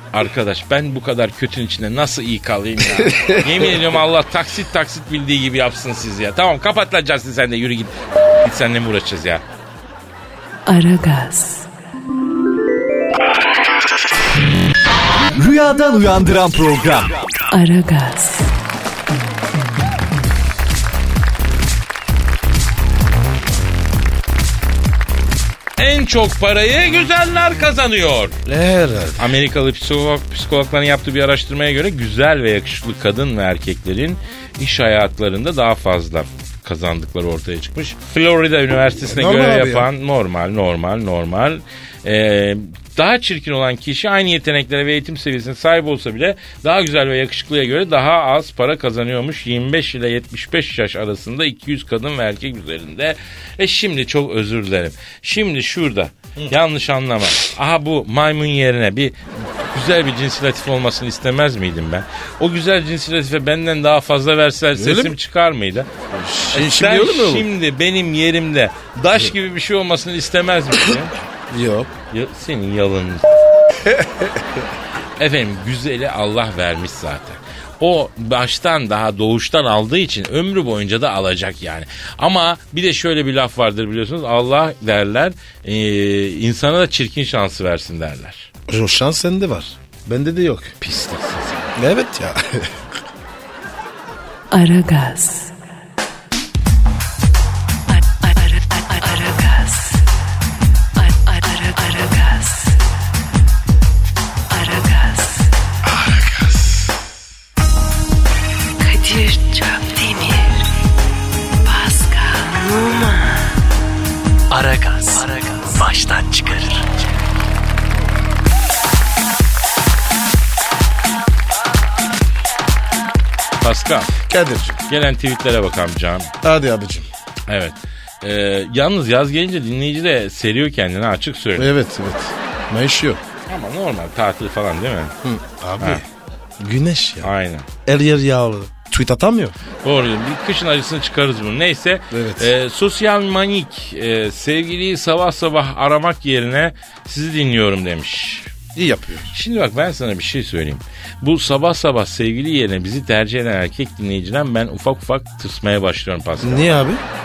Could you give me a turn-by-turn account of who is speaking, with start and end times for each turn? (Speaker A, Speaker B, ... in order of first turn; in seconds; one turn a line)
Speaker A: 0.1-9.4
Speaker B: 3.0-3.7
Speaker C: 10.7-11.7
Speaker D: 15.3-17.2
Speaker C: 17.5-18.5
Speaker A: 25.8-28.4
Speaker B: 28.5-29.3
Speaker A: 29.2-65.9
Speaker B: 39.1-39.9
Speaker B: 64.8-65.2
Speaker B: 66.1-67.5
Speaker A: 66.5-71.2
Speaker B: 71.5-71.9
Speaker A: 72.1-73.3
Speaker B: 73.8-74.6
Speaker A: 75.2-88.5
Speaker B: 88.7-90.7
Speaker A: 90.8-91.8
Speaker B: 91.8-92.8
Speaker C: 94.5-95.5
Speaker C: 97.9-100.0
Speaker C: 101.0-102.8
Speaker C: 104.5-105.5
Speaker B: 105.8-106.8
Speaker C: 108.8-110.6
Speaker C: 111.6-113.6
Speaker D: 114.5-116.9
Speaker A: 123.6-124.1
Speaker B: 124.2-124.8
Speaker A: 124.9-126.3
Speaker B: 126.4-127.1
Speaker A: 127.5-131.7
Speaker B: 131.6-133.2
Speaker A: 133.5-135.1
Speaker B: 135.2-136.0
Speaker B: 136.6-137.3
Speaker A: 137.2-137.7
Speaker B: 137.8-139.6
Speaker A: 139.8-148.5
Speaker B: 142.1-142.5
Speaker B: 148.8-149.3
Speaker A: 149.3-156.8
Speaker B: 156.4-157.0